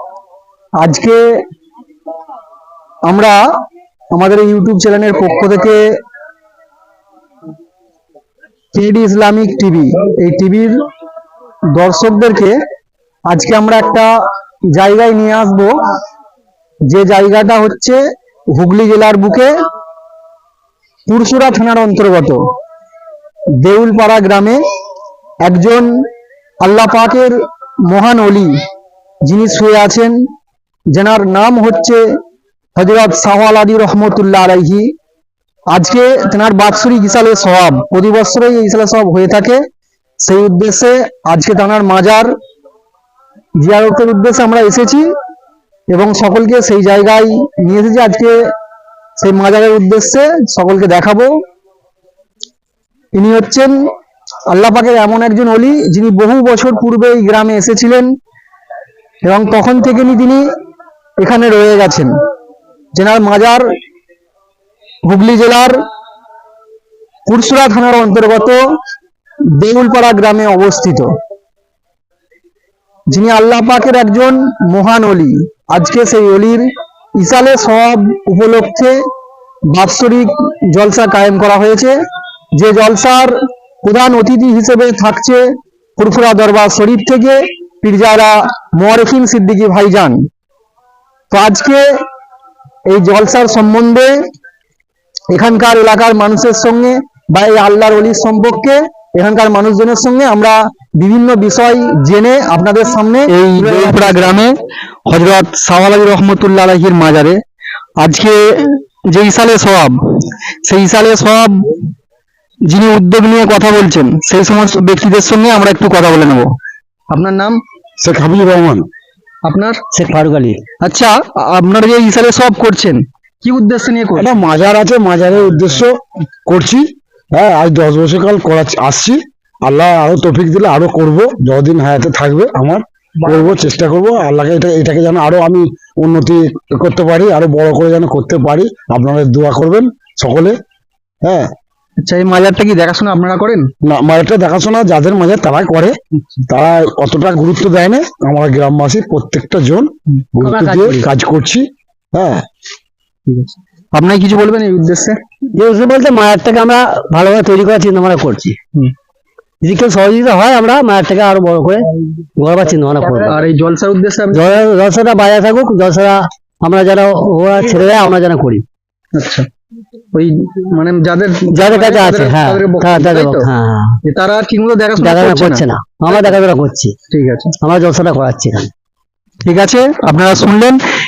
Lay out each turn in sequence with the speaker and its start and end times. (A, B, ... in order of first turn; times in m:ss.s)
0:00.8-0:01.2 A
0:03.1-0:03.4 A
0:04.1-0:05.8 A
0:08.7-0:10.7 A
0:11.7-0:12.6 A
0:13.3-0:14.1 A
0:14.8-0:15.7 A
0:16.9-0:18.0 A
0:18.5-0:19.5 A
0:21.1-0:22.4 A
0:23.6-0:24.6 A
0:25.4-0:25.9 A
0:26.6-0:27.3 A
0:27.9-0:28.5 A
0:29.2-0:30.2 A
0:30.9-0:32.0 A
0:32.8-0:34.9 A
0:35.7-0:39.6 A
0:40.2-0:42.3 A
0:43.6-0:45.0 A
0:45.9-0:48.4 A
0:49.2-0:51.3 A
0:53.2-0:53.7 A
0:54.5-0:58.1 A
0:59.2-1:00.4 A
1:01.2-1:02.1 A
1:02.9-1:03.6 A
1:05.0-1:05.7 A
1:07.3-1:08.6 A
1:09.6-1:11.1 A
1:13.1-1:19.0 A
1:19.7-1:22.0 A
1:22.6-1:25.4 A
1:26.0-1:30.2 A
1:31.3-1:31.8 A
1:32.9-1:34.2 A
1:35.3-1:44.5 A
1:43.6-1:44.0 B
1:45.1-1:47.4 A
1:48.0-1:50.0 A
1:50.6-1:51.6 A
1:52.7-1:56.5 A
1:57.1-1:57.6 A
1:58.0-1:58.9 B
1:59.4-1:59.8 A
1:59.9-2:00.6 C
2:00.8-2:04.3 A
2:04.2-2:06.0 B
2:06.5-2:20.6 B
2:21.2-2:21.5 B
2:22.0-2:23.7 A
2:23.8-2:26.0 B
2:26.5-2:32.4 B
2:30.4-2:31.1 C
2:33.3-2:35.2 A
2:35.6-2:38.6 C
2:39.6-2:43.4 C
2:43.3-2:44.4 A
2:44.3-2:48.6 C
2:49.1-2:49.5 A
2:50.1-2:53.5 A
2:51.5-2:54.0 C
2:54.0-2:56.3 A
2:55.0-2:57.0 C
2:57.1-2:57.5 A
2:57.6-2:58.7 C
2:59.4-3:00.8 A